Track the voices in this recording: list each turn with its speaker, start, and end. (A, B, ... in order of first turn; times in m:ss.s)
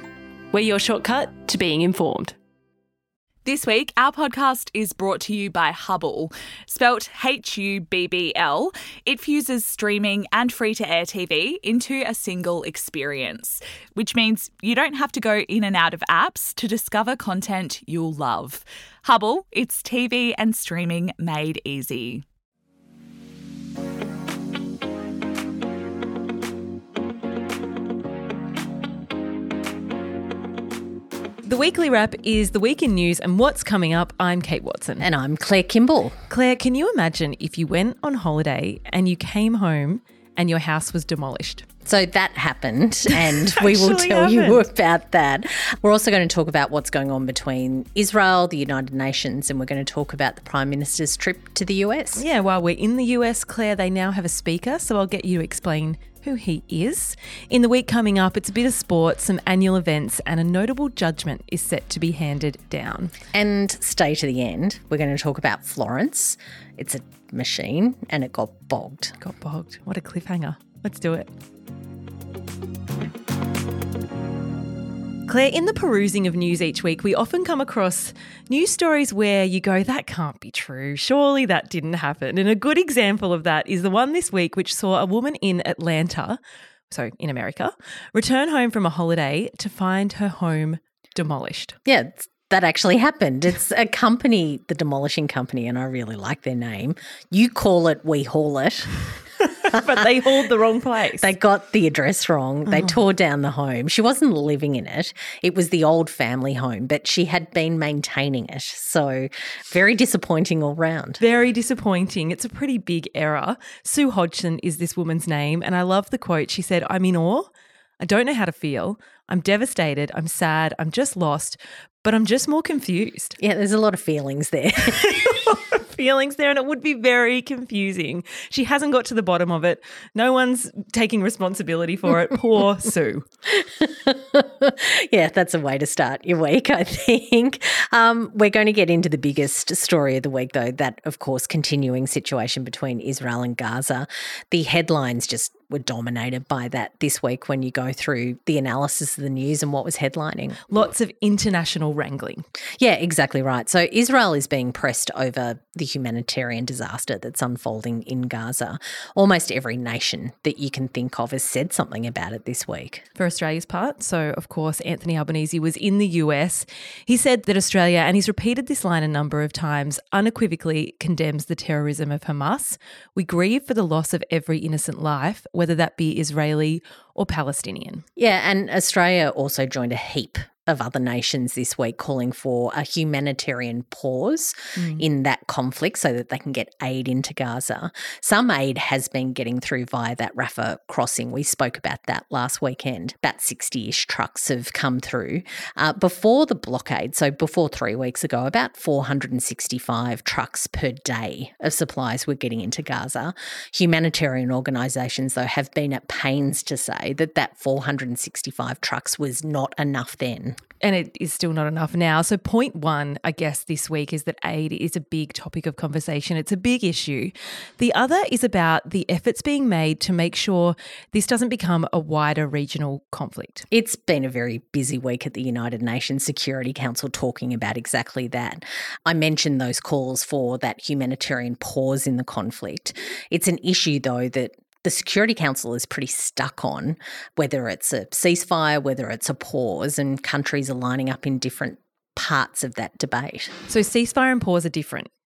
0:00.5-0:02.4 A
0:03.4-0:22.2 B
0:31.4-0:35.1 A
0:35.0-0:36.2 C
0:36.3-0:41.7 A
0:41.8-0:52.2 C
0:43.1-0:44.6 A
0:52.2-1:03.1 A
1:03.3-1:09.2 C
1:09.2-1:11.3 A
1:15.3-1:26.4 A
1:26.9-1:31.8 A
1:31.9-1:39.0 C
1:39.5-1:41.3 A
1:39.7-1:40.3 C
1:41.2-1:51.2 C
1:51.2-1:57.5 A
1:58.0-2:03.4 A
2:03.4-2:05.6 C
2:04.9-2:13.3 A
2:13.5-2:30.6 C
2:30.7-2:32.5 A
2:32.8-2:43.1 C
2:43.2-2:58.1 A
2:58.2-3:30.6 C
3:04.8-3:05.0 A
3:30.8-3:43.7 A
3:43.7-4:03.6 C
4:03.7-4:05.1 A